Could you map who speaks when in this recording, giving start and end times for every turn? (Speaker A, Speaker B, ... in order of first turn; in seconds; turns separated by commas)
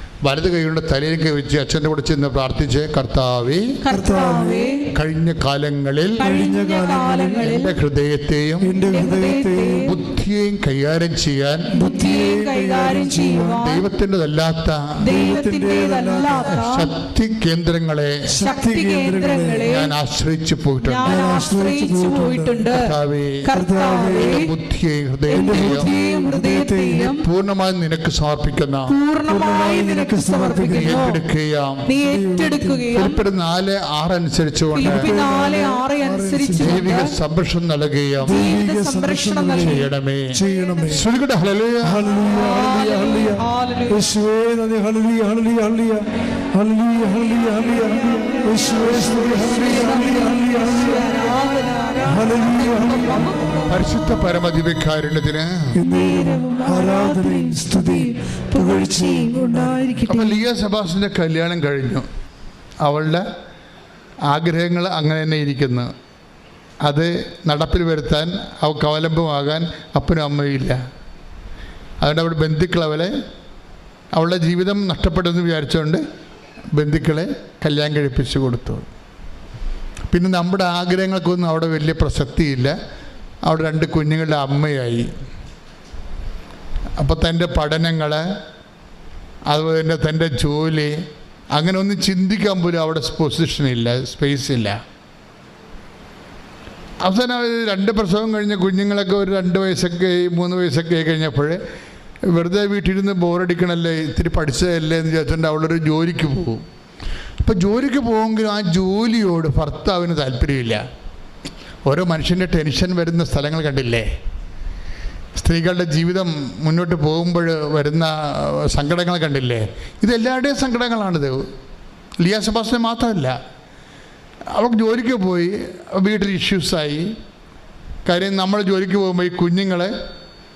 Speaker A: 0.2-3.6, Speaker B: 3.8-4.9, Speaker C: 3.9-4.8, Speaker A: 4.9-6.2, Speaker B: 6.2-7.8, Speaker C: 6.2-7.6, Speaker A: 7.4-8.8, Speaker C: 8.6-10.0, Speaker B: 8.9-10.0, Speaker A: 9.8-11.7, Speaker B: 11.7-13.8, Speaker C: 11.8-13.7, Speaker A: 13.6-15.0, Speaker B: 15.0-16.9, Speaker C: 15.1-16.7, Speaker A: 16.4-18.3, Speaker C: 18.3-19.8, Speaker B: 18.4-19.9, Speaker A: 19.6-21.2, Speaker B: 20.8-22.8, Speaker C: 21.1-22.7, Speaker A: 22.7-23.5, Speaker B: 23.4-24.5, Speaker C: 23.5-24.5, Speaker A: 24.1-25.9, Speaker B: 25.3-27.2, Speaker C: 25.3-27.1, Speaker A: 27.0-28.9, Speaker B: 28.9-31.2, Speaker C: 29.3-31.2, Speaker A: 30.7-31.9, Speaker B: 31.9-33.2, Speaker C: 32.0-33.0, Speaker A: 32.9-35.0, Speaker B: 34.8-37.1, Speaker C: 34.8-37.0, Speaker A: 36.6-38.4, Speaker B: 38.3-39.9, Speaker C: 38.3-41.0, Speaker A: 39.6-40.3, Speaker A: 40.9-42.0, Speaker C: 41.8-51.3, Speaker B: 42.1-44.1, Speaker B: 47.5-53.8, Speaker C: 52.1-53.3, Speaker A: 53.7-55.8, Speaker C: 55.8-60.0, Speaker B: 55.9-60.4, Speaker A: 60.0-62.0, Speaker A: 62.8-63.2, Speaker A: 64.3-65.9, Speaker A: 66.8-70.8, Speaker A: 72.0-73.1, Speaker A: 74.2-76.0, Speaker A: 76.7-78.9, Speaker A: 80.1-82.8, Speaker A: 83.5-85.1, Speaker A: 87.0-88.2, Speaker A: 89.5-90.9, Speaker A: 91.5-94.8, Speaker A: 97.0-101.6, Speaker A: 102.3-106.6, Speaker A: 107.4-110.8, Speaker A: 111.9-114.1, Speaker A: 115.4-121.4, Speaker A: 122.2-123.3, Speaker A: 124.5-127.1, Speaker A: 128.1-129.9